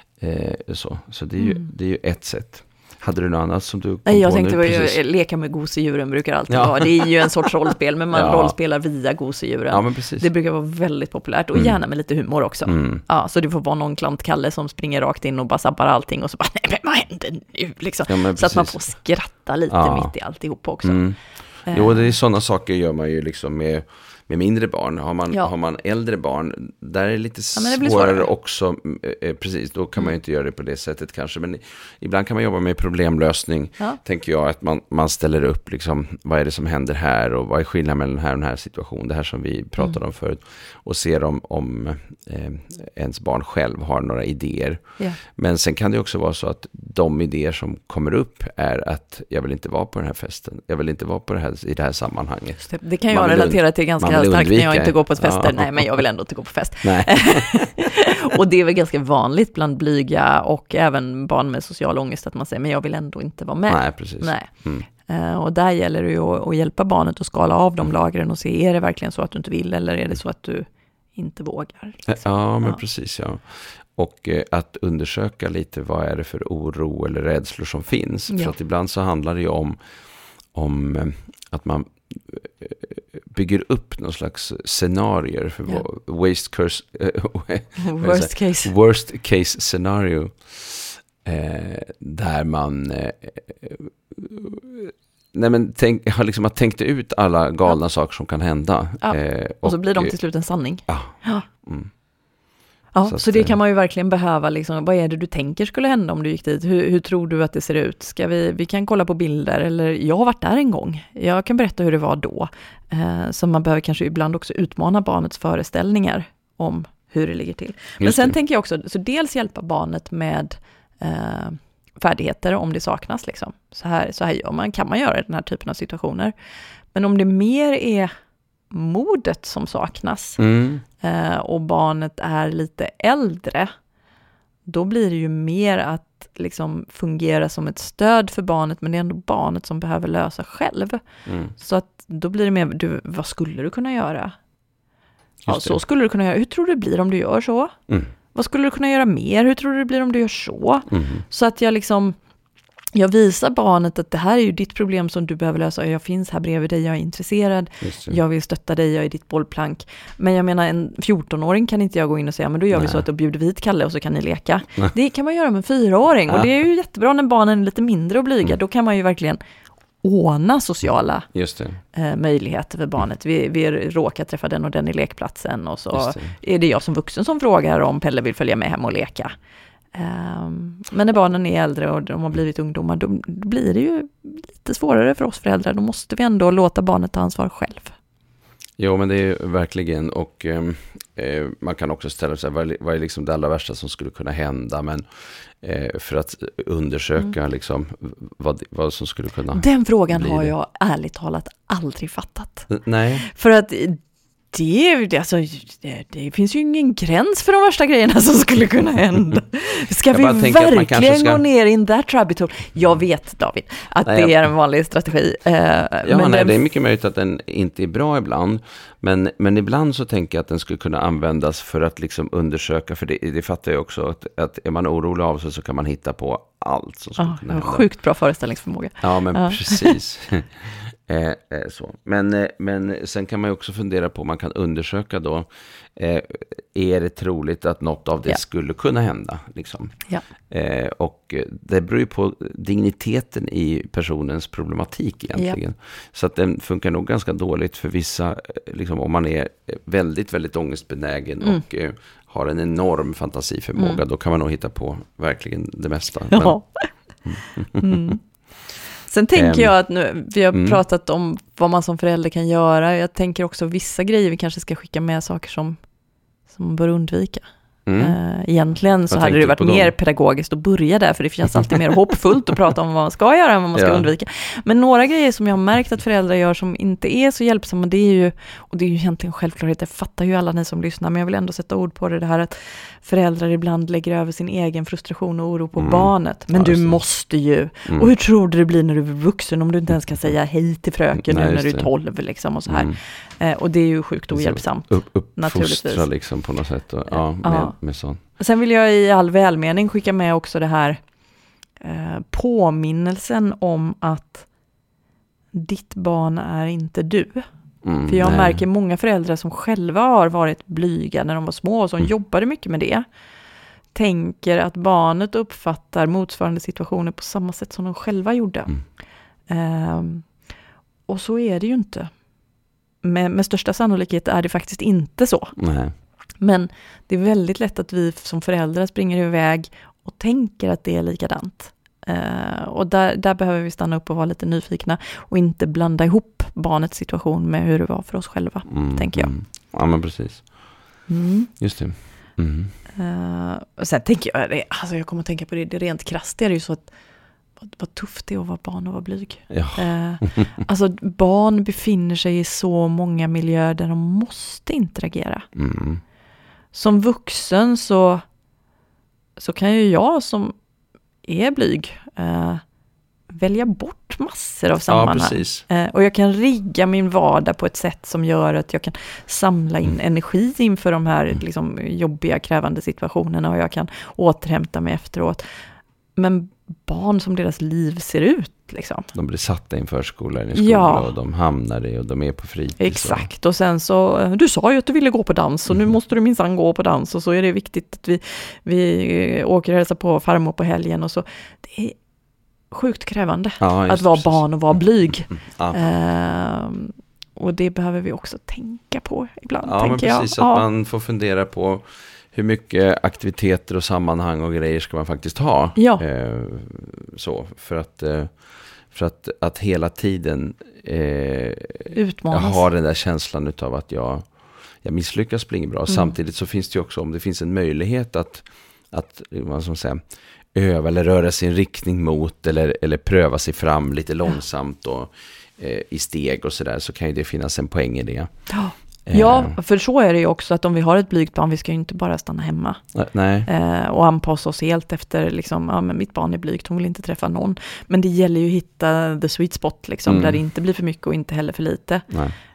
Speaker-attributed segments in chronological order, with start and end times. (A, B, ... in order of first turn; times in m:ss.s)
0:00.2-0:05.0 A
0:01.4-0:01.7 B
0:04.0-0:21.0 B
0:06.5-0:07.4 A
0:08.1-0:08.5 A
0:09.7-0:10.3 A
0:12.6-0:13.0 A
0:18.1-0:18.8 A
0:19.7-0:20.1 A
0:20.8-0:55.8 A
0:21.6-0:22.1 B
0:27.5-0:28.3 B
0:52.6-1:12.8 B
0:56.8-0:57.6 A
1:03.7-1:04.8 A
1:12.1-1:19.8 A
1:18.3-1:18.5 B
1:20.5-1:40.1 A
1:27.8-1:28.7 B
1:39.0-1:41.4 B
1:40.9-1:41.9 A
1:42.9-2:06.3 B
1:43.0-1:43.5 A
1:58.0-1:58.3 A
2:06.9-2:08.1 B
2:08.7-2:10.4 B
2:10.4-2:10.8 A
2:11.0-2:13.7 B
2:14.7-2:21.0 B
2:21.2-2:21.5 A
2:21.5-2:24.3 B
2:25.4-2:25.8 A
2:25.5-2:27.7 B
2:28.3-2:32.2 B
2:30.9-2:31.2 A
2:32.9-2:49.4 B
2:37.8-2:38.2 A
2:42.7-2:43.0 A
2:50.0-2:51.3 B
2:51.3-2:51.8 A
2:51.9-2:59.3 B
2:55.9-2:56.3 A
2:59.9-3:07.9 B
3:08.8-3:20.5 A
3:19.5-3:22.7 B
3:22.7-3:23.3 A
3:23.2-3:24.0 B
3:24.5-3:36.6 B
3:30.1-3:31.4 A
3:34.0-3:34.4 A
3:36.0-3:47.8 A
3:47.2-3:49.9 B
3:49.0-4:00.0 A
4:00.5-4:16.6 A
4:16.3-4:16.9 B
4:17.2-4:18.1 A
4:17.8-4:18.2 B
4:19.0-4:25.8 B
4:19.3-4:19.8 A
4:20.5-4:20.8 A
4:26.5-4:27.4 B
4:27.8-4:28.2 A
4:28.0-4:56.1 B
4:29.1-4:29.9 A
4:33.7-4:34.1 A
4:45.8-4:47.0 A
4:51.1-4:51.9 A
4:52.7-4:53.0 A
4:54.3-4:58.2 A
4:57.1-4:57.8 B
4:58.4-5:01.0 B
5:01.8-5:04.5 B
5:05.5-5:07.4 B
5:07.8-5:08.6 A
5:08.0-5:13.0 B
5:13.9-5:18.9 B
5:19.5-5:20.3 B
5:21.1-5:22.1 B
5:23.0-5:25.6 B
5:25.6-5:25.9 A
5:26.4-5:39.3 B
5:38.7-5:40.6 A
5:41.1-5:41.5 B
5:41.6-5:42.7 A
5:43.0-5:46.9 B
5:47.6-5:55.4 B
5:49.5-5:50.6 A
5:55.5-5:56.0 A
5:56.7-5:58.2 B
5:59.4-6:00.5 B
6:01.2-6:02.6 B
6:03.3-6:15.4 B
6:04.9-6:05.6 A
6:16.2-6:19.1 B
6:19.1-6:23.3 A
6:20.5-6:21.1 B
6:22.8-6:32.0 B
6:32.7-6:40.6 B
6:33.6-6:34.4 A
6:35.3-6:35.8 A
6:39.6-7:00.0 A
6:45.8-6:46.0 B
6:51.9-6:52.6 B
6:55.9-6:56.1 B
7:00.5-7:08.3 A
7:08.5-7:12.8 B
7:09.1-7:09.6 A
7:12.9-7:13.5 A
7:13.4-7:22.1 B
7:20.0-7:20.4 A